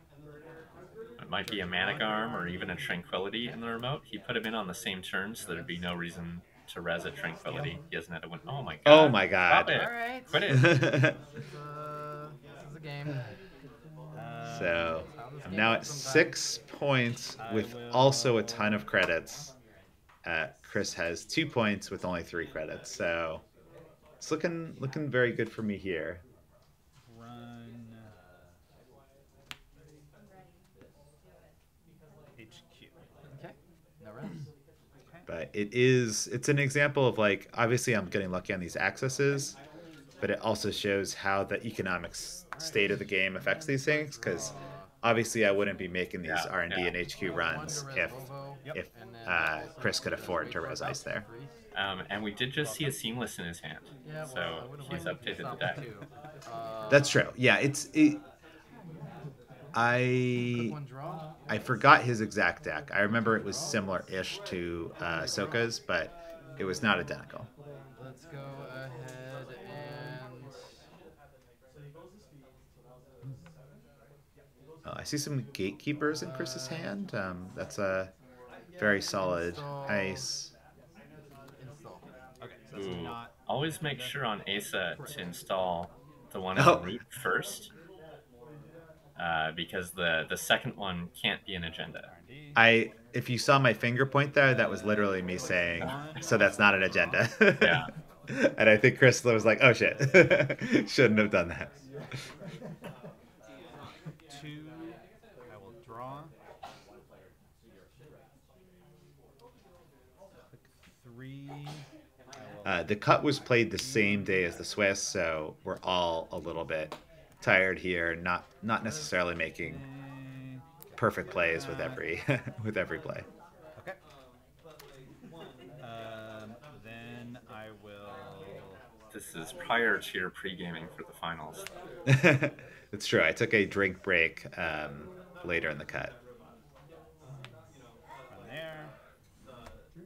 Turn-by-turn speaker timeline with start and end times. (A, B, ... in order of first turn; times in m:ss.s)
0:01.2-0:10.8 A
0:01.5-0:02.8 B
0:01.5-0:02.1 C
0:08.8-0:09.8 D
0:09.7-0:13.3 B
0:10.5-0:11.1 D
0:14.1-0:15.1 C
0:14.5-0:19.5 D
0:14.8-0:16.5 B
0:17.4-0:18.9 C
0:20.2-0:23.4 D
0:24.2-0:26.2 D
0:27.1-0:28.1 C
0:32.4-0:33.0 C
0:33.3-0:34.5 B
0:35.3-0:39.6 D
0:40.2-0:51.2 D
0:43.9-0:44.9 B
0:46.2-0:46.9 A
0:47.2-0:51.5 B
0:51.7-0:55.8 A
0:54.0-0:57.3 B
0:55.7-0:56.1 C
0:56.9-0:58.2 D
0:59.7-1:00.8 D
1:00.4-1:01.3 B
1:01.5-1:07.5 D
1:03.1-1:03.8 B
1:05.0-1:05.7 B
1:08.0-1:10.5 B
1:14.8-1:18.1 D
1:16.1-1:17.0 B
1:18.8-1:20.5 D
1:19.1-1:20.3 B
1:21.6-1:22.1 B
1:22.4-1:24.2 C
1:22.7-1:27.7 A
1:24.9-1:25.3 B
1:26.5-1:26.9 D
1:29.2-1:32.1 A
1:32.0-1:32.6 C
1:32.5-1:41.7 D
1:34.4-1:37.6 C
1:35.8-1:36.1 A
1:37.6-1:37.9 A
1:39.9-1:40.3 C
1:44.3-1:46.3 C
1:50.5-1:54.7 C
1:52.6-1:59.8 D
1:58.8-2:02.0 C
2:01.0-2:03.2 D
2:05.8-2:08.8 C
2:09.1-2:11.6 A
2:12.1-2:16.1 D
2:18.3-2:18.9 C